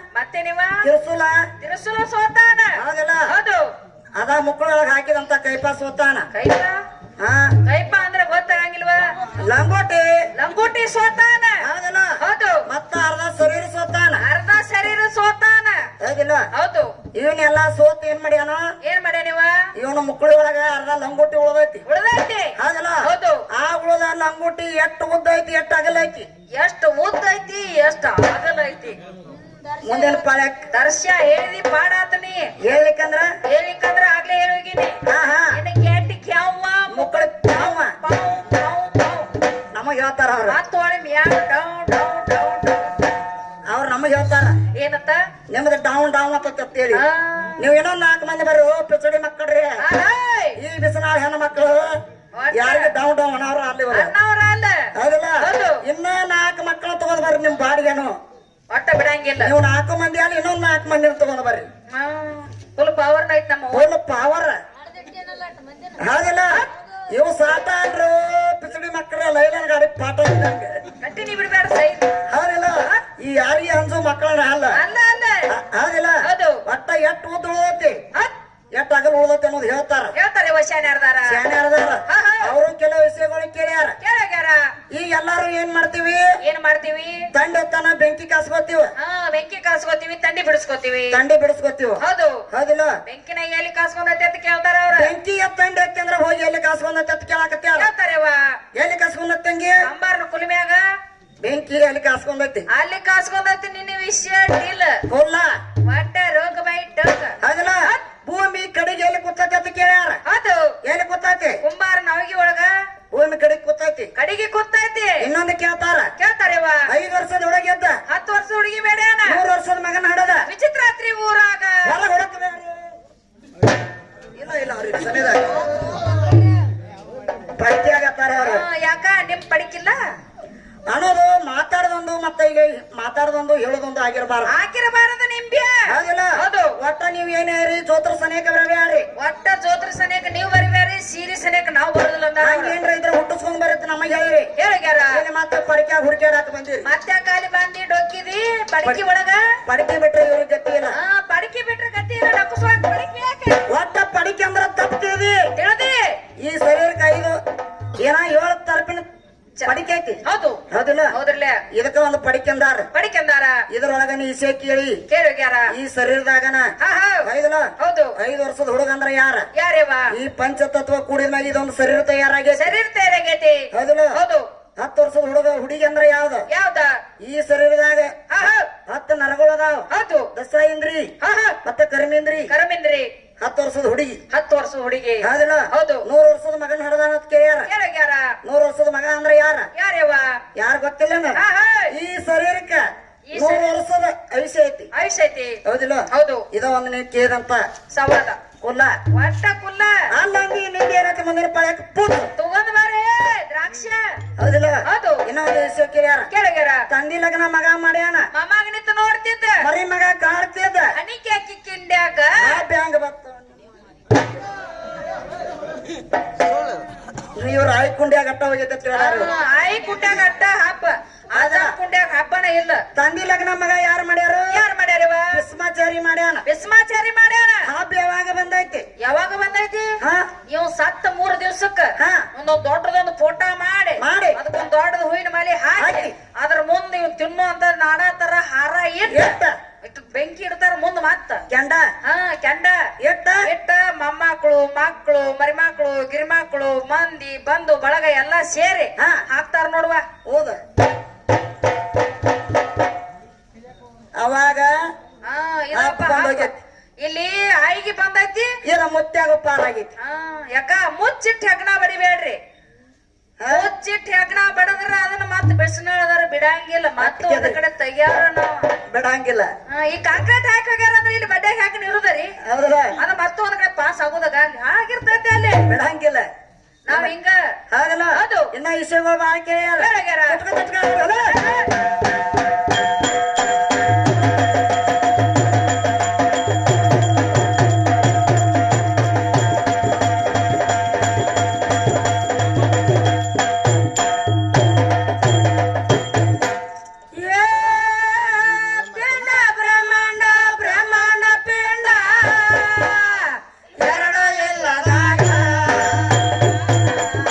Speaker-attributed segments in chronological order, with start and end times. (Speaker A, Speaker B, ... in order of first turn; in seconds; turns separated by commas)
Speaker A: 0.1-0.8, Speaker B: 0.8-1.4, Speaker A: 1.6-3.6, Speaker B: 2.8-3.3, Speaker B: 4.2-6.3, Speaker A: 6.3-6.8, Speaker B: 7.2-7.5, Speaker A: 7.7-9.1, Speaker B: 9.4-10.1, Speaker A: 10.4-11.6, Speaker B: 11.6-14.2, Speaker A: 12.2-12.7, Speaker A: 14.2-15.8, Speaker B: 16.0-16.4, Speaker A: 16.5-16.9, Speaker B: 17.1-18.6, Speaker A: 18.8-19.5, Speaker B: 19.8-21.8, Speaker A: 21.9-23.4, Speaker B: 22.6-26.3, Speaker A: 26.6-29.0, Speaker B: 29.8-30.6, Speaker A: 29.9-32.5, Speaker B: 32.6-33.3, Speaker A: 33.5-35.0, Speaker B: 35.0-35.6, Speaker A: 35.5-39.3, Speaker B: 36.9-37.9, Speaker B: 39.7-40.6, Speaker A: 40.5-43.0, Speaker B: 43.7-44.6, Speaker A: 44.8-45.2, Speaker B: 45.5-47.0, Speaker A: 46.9-47.7, Speaker B: 47.6-49.8, Speaker A: 49.8-50.6, Speaker B: 50.6-51.9, Speaker A: 52.4-52.9, Speaker B: 52.5-54.1, Speaker A: 53.9-54.8, Speaker B: 54.9-58.1, Speaker A: 55.4-55.8, Speaker A: 58.7-59.5, Speaker B: 59.4-61.7, Speaker A: 61.9-63.9, Speaker B: 63.7-64.6, Speaker A: 64.9-66.0, Speaker B: 66.0-70.8, Speaker A: 71.0-72.2, Speaker B: 72.3-74.8, Speaker A: 74.7-75.5, Speaker B: 75.5-78.0, Speaker A: 76.2-76.6, Speaker B: 78.7-80.1, Speaker A: 80.1-81.4, Speaker B: 81.2-84.0, Speaker A: 82.1-82.5, Speaker A: 84.0-84.6, Speaker B: 84.9-86.2, Speaker A: 86.4-87.2, Speaker B: 87.3-88.9, Speaker A: 89.0-91.2, Speaker B: 91.1-92.9, Speaker A: 92.0-92.4, Speaker A: 93.0-95.1, Speaker B: 95.0-97.9, Speaker A: 97.8-98.4, Speaker B: 98.8-99.8, Speaker A: 99.8-100.8, Speaker B: 101.4-102.7, Speaker A: 102.7-105.0, Speaker B: 105.1-105.5, Speaker A: 105.9-108.0, Speaker B: 107.4-110.2, Speaker A: 110.2-110.7, Speaker B: 110.8-111.6, Speaker A: 111.6-112.7, Speaker B: 113.1-114.1, Speaker A: 114.2-115.3, Speaker B: 115.2-116.1, Speaker A: 116.2-116.9, Speaker B: 116.9-118.0, Speaker A: 118.1-119.4, Speaker B: 119.2-120.4, Speaker A: 120.5-121.9, Speaker B: 121.8-122.8, Speaker B: 124.3-125.5, Speaker B: 127.5-128.6, Speaker A: 128.3-130.0, Speaker B: 130.9-134.5, Speaker A: 134.4-136.8, Speaker B: 135.9-139.1, Speaker A: 139.2-142.8, Speaker B: 142.4-144.5, Speaker A: 144.6-145.2, Speaker B: 145.1-146.8, Speaker A: 146.8-149.5, Speaker B: 149.7-150.9, Speaker A: 150.9-153.6, Speaker B: 153.7-155.4, Speaker A: 155.6-156.2, Speaker B: 156.4-157.4, Speaker B: 158.0-159.0, Speaker A: 159.6-161.6, Speaker B: 159.6-161.1, Speaker B: 161.7-162.9, Speaker A: 162.9-163.6, Speaker B: 163.7-165.0, Speaker A: 165.1-165.7, Speaker B: 165.7-166.7, Speaker A: 166.8-167.3, Speaker B: 167.2-169.5, Speaker A: 167.8-168.1, Speaker A: 169.6-170.1, Speaker B: 170.1-172.7, Speaker A: 172.5-174.4, Speaker B: 173.7-174.2, Speaker B: 174.8-176.4, Speaker A: 176.5-177.0, Speaker B: 177.2-178.1, Speaker A: 178.3-178.7, Speaker B: 178.9-181.1, Speaker A: 179.9-180.3, Speaker A: 181.2-181.6, Speaker B: 181.6-182.5, Speaker A: 182.5-183.1, Speaker B: 183.4-184.2, Speaker A: 184.3-186.1, Speaker B: 185.2-187.7, Speaker A: 187.7-188.3, Speaker B: 188.4-189.7, Speaker A: 189.7-190.3, Speaker B: 190.6-192.8, Speaker A: 191.3-191.9, Speaker A: 193.3-193.7, Speaker B: 193.3-194.9, Speaker A: 194.9-195.6, Speaker B: 195.6-197.6, Speaker A: 196.1-196.4, Speaker A: 197.9-198.4, Speaker B: 198.6-199.0, Speaker A: 199.1-200.0, Speaker B: 200.1-202.3, Speaker A: 202.4-204.2, Speaker B: 204.4-206.3, Speaker A: 204.8-205.2, Speaker A: 206.3-206.8, Speaker B: 206.9-208.3, Speaker A: 208.3-209.6, Speaker B: 209.6-210.9, Speaker A: 210.9-212.6, Speaker B: 212.4-213.5, Speaker B: 217.4-219.3, Speaker A: 218.9-222.8, Speaker B: 221.3-221.7, Speaker B: 222.9-224.6, Speaker A: 224.5-225.4, Speaker B: 225.3-226.4, Speaker A: 226.4-227.7, Speaker B: 227.7-228.8, Speaker A: 229.0-229.9, Speaker B: 230.0-230.3, Speaker A: 230.5-241.4, Speaker B: 232.0-232.2, Speaker B: 234.0-234.4, Speaker B: 235.8-236.1, Speaker B: 239.1-239.6, Speaker B: 241.5-241.9, Speaker A: 242.0-242.8, Speaker B: 243.0-243.4, Speaker A: 243.4-250.0, Speaker B: 250.2-250.6, Speaker B: 254.2-254.7, Speaker A: 255.2-256.5, Speaker B: 255.7-256.6, Speaker A: 257.0-258.5, Speaker B: 258.6-259.9, Speaker A: 260.0-262.4, Speaker B: 263.4-263.7, Speaker A: 263.5-268.7, Speaker B: 267.0-267.6, Speaker B: 268.9-269.5, Speaker A: 269.7-272.3, Speaker B: 272.4-273.0, Speaker A: 273.0-275.6, Speaker B: 275.7-276.3, Speaker A: 276.9-277.4, Speaker B: 277.7-281.5, Speaker A: 278.1-278.5, Speaker A: 279.8-280.4, Speaker A: 281.2-281.7, Speaker A: 297.1-305.7, Speaker B: 303.8-306.1